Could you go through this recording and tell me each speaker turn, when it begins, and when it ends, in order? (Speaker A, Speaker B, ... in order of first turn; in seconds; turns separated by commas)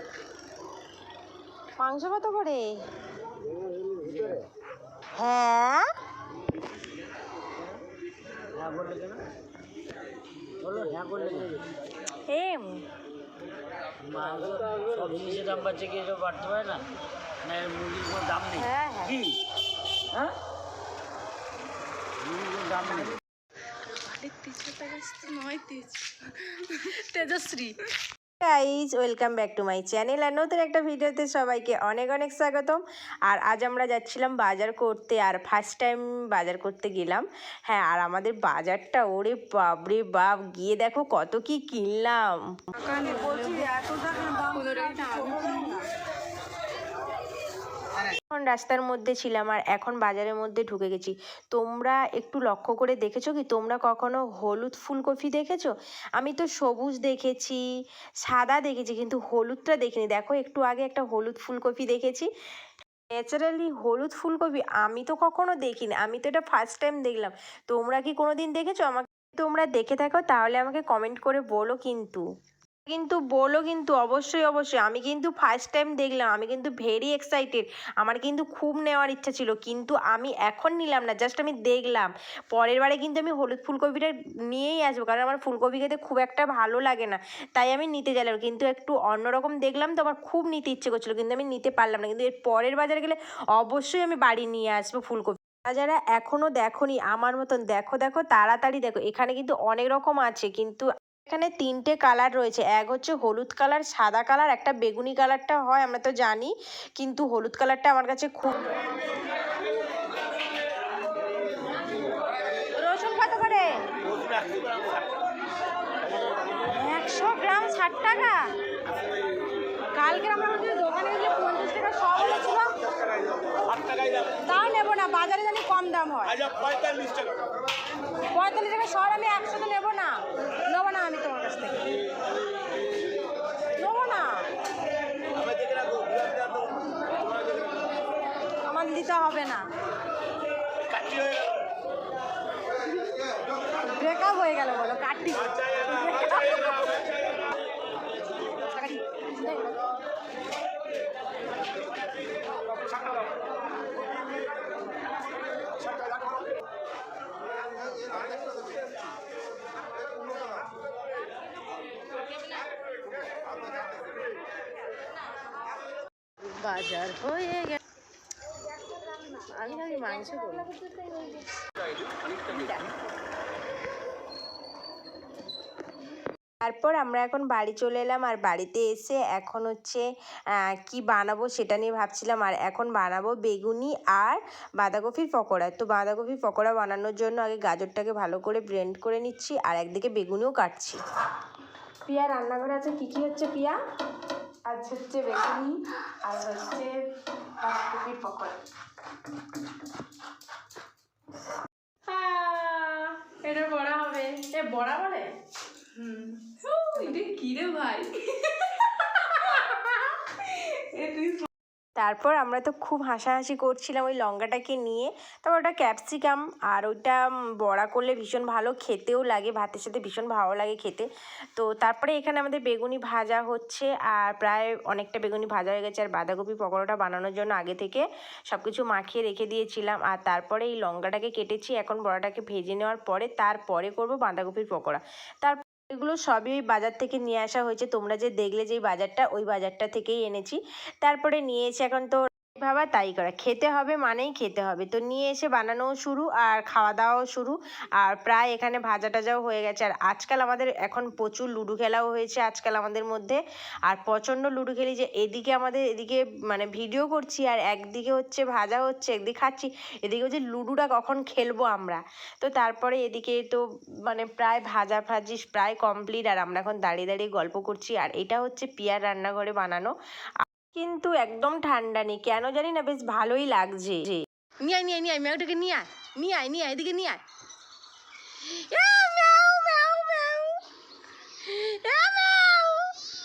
Speaker A: 1.8-2.7, Speaker A: 5.2-5.9, Speaker B: 8.6-9.2, Speaker B: 10.6-11.6, Speaker A: 12.3-12.8, Speaker B: 14.0-16.9, Speaker B: 17.4-19.4, Speaker A: 18.5-19.3, Speaker B: 22.2-23.1, Speaker C: 23.8-27.8, Speaker A: 28.4-45.8, Speaker C: 42.8-45.9, Speaker A: 48.3-57.6, Speaker A: 58.2-62.3, Speaker A: 63.1-72.2, Speaker A: 72.9-108.7, Speaker A: 112.8-113.7, Speaker A: 116.6-118.4, Speaker A: 120.0-122.8, Speaker A: 124.5-126.5, Speaker A: 128.3-130.2, Speaker A: 130.7-131.8, Speaker A: 133.8-134.4, Speaker A: 138.7-139.6, Speaker A: 143.8-147.1, Speaker A: 148.7-149.8, Speaker A: 166.4-167.8, Speaker A: 169.3-171.5, Speaker A: 172.5-172.9, Speaker A: 176.6-191.0, Speaker A: 192.1-193.8, Speaker A: 194.7-197.0, Speaker A: 197.6-198.6, Speaker A: 202.1-205.3, Speaker C: 205.9-211.5, Speaker A: 212.0-269.9, Speaker A: 270.6-277.2, Speaker A: 278.4-280.6, Speaker A: 281.4-283.0